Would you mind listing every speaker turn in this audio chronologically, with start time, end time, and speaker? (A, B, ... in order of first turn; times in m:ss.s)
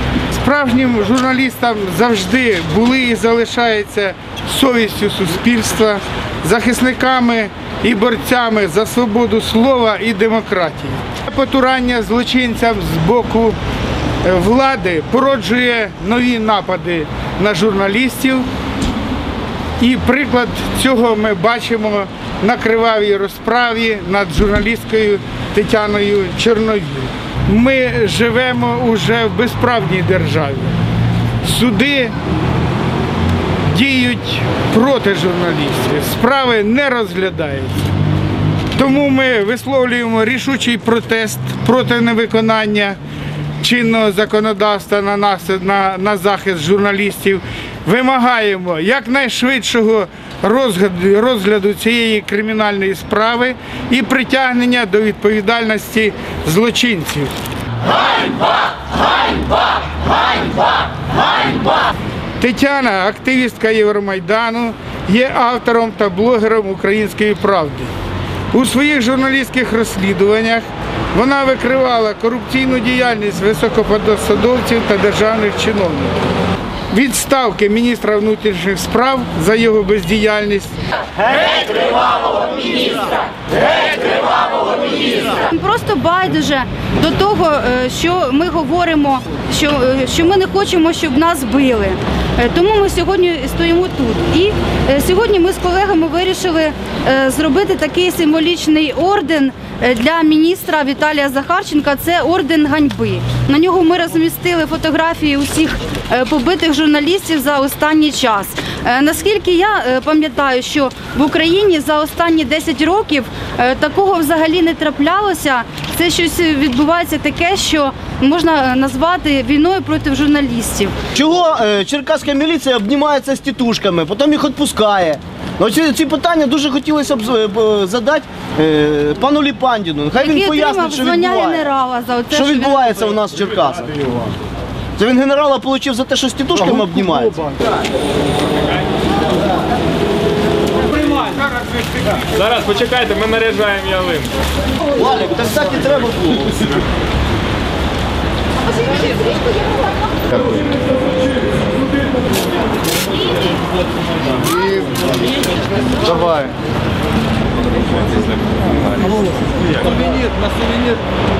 0:00.3-0:13.6 A
0:14.2-0:18.4 A
0:19.8-0:30.8 A
0:31.4-0:32.1 A
0:33.7-0:37.8 A
0:38.8-0:43.0 A
0:43.6-0:57.3 A
1:02.4-1:07.9 A
1:08.5-1:16.1 A
1:16.9-1:20.8 A
1:24.5-2:00.9 B
2:01.1-2:11.7 C
2:10.2-2:12.9 B
2:12.3-2:14.3 C
2:15.0-2:17.5 C
2:20.9-2:22.4 A
2:22.3-2:24.3 D
2:24.9-2:26.7 C
2:36.0-2:36.5 C